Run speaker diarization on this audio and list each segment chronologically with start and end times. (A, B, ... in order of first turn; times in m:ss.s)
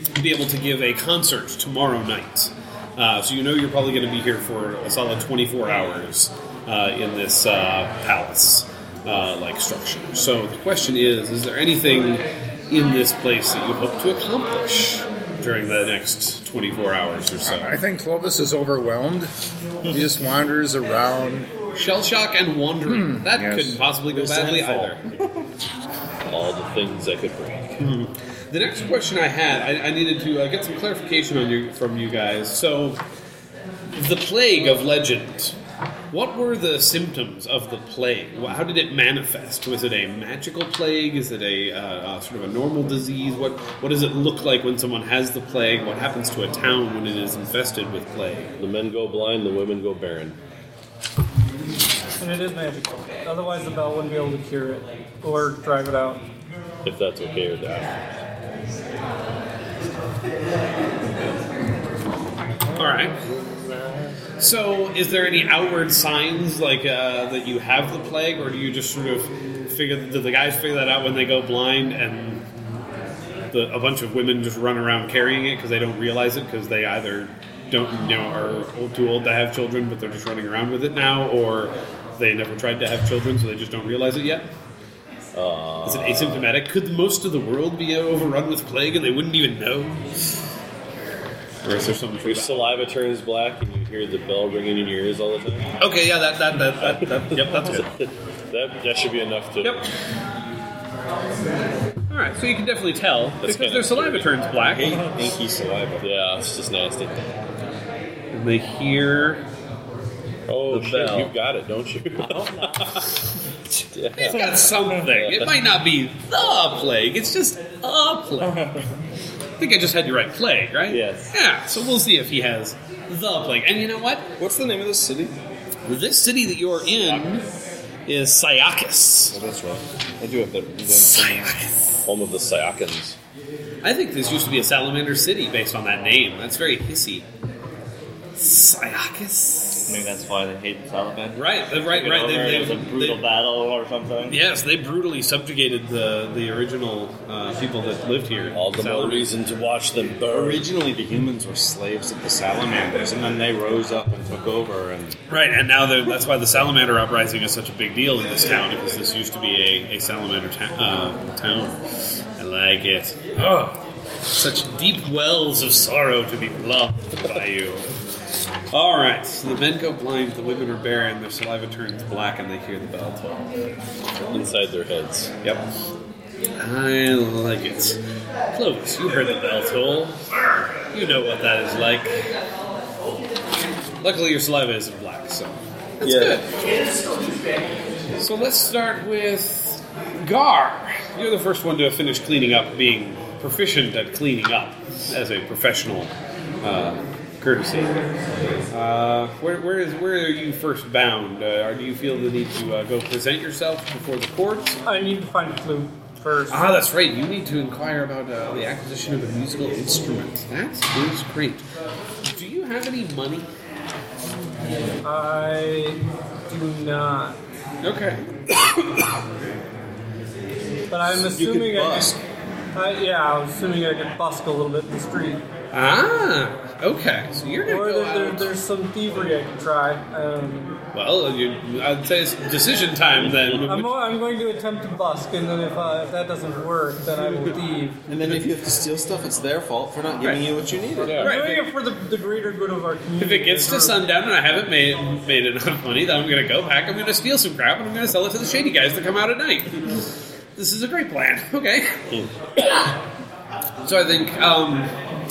0:00.1-0:17.8 A
0:17.4-0:19.3 B
0:19.8-0:21.5 B
0:21.7-0:25.0 A
0:22.9-0:23.8 B
0:24.1-0:25.0 C
0:26.2-0:27.8 D
0:27.8-0:33.0 A
0:33.9-0:35.6 A
0:36.1-0:48.5 A
0:48.6-0:50.4 D
0:52.2-0:56.2 E
0:56.8-0:58.0 D
1:02.7-1:03.1 A
1:04.4-1:12.4 A
1:13.5-1:24.5 A
1:25.3-1:26.4 D
1:25.8-1:30.1 A
1:31.6-1:32.9 A
1:32.2-1:35.7 D
1:35.8-1:37.9 A
1:36.8-1:39.8 D
1:39.6-1:39.9 A
1:42.1-1:45.0 A
1:43.4-1:44.5 D
1:44.7-1:46.0 C
1:46.0-1:47.2 D
1:48.3-1:49.4 A
1:50.5-1:53.0 D
1:50.7-1:51.3 A
1:52.3-1:52.7 F
1:53.7-1:55.5 D
1:54.2-1:58.8 A
1:59.6-2:04.3 A
2:00.9-2:01.3 F
2:04.4-2:05.4 C
2:05.8-2:07.4 A
2:08.1-2:09.4 A
2:09.3-2:11.6 C
2:10.9-2:12.0 A
2:12.0-2:13.2 D
2:13.8-2:17.2 A
2:18.4-2:20.0 A
2:19.9-2:24.4 F
2:21.3-2:23.2 A
2:24.3-2:29.3 A
2:28.5-2:30.7 D
2:30.2-2:35.2 C
2:35.3-2:41.8 A
2:42.4-2:47.9 A
2:48.7-2:53.4 A
2:54.3-2:55.3 D
2:56.6-2:58.0 A
2:58.5-3:00.2 A
3:00.9-3:02.3 A
3:04.0-3:06.5 A
3:06.0-3:06.4 C
3:08.2-3:18.0 A
3:18.7-3:24.8 A
3:24.8-3:26.7 E
3:26.5-3:31.6 A
3:32.2-3:33.5 A
3:35.0-3:37.4 E
3:37.8-3:39.2 A
3:40.9-3:42.1 E
3:41.0-3:42.2 C
3:42.7-3:45.4 E
3:45.7-3:48.5 A
3:47.6-3:50.8 E
3:50.9-3:54.0 A
3:53.2-3:53.7 D
3:53.6-3:58.0 E
3:58.1-4:01.2 C
4:00.2-4:00.5 A
4:01.0-4:01.4 D
4:01.0-4:01.6 A
4:01.2-4:04.0 E
4:03.2-4:12.9 A
4:13.8-4:14.9 A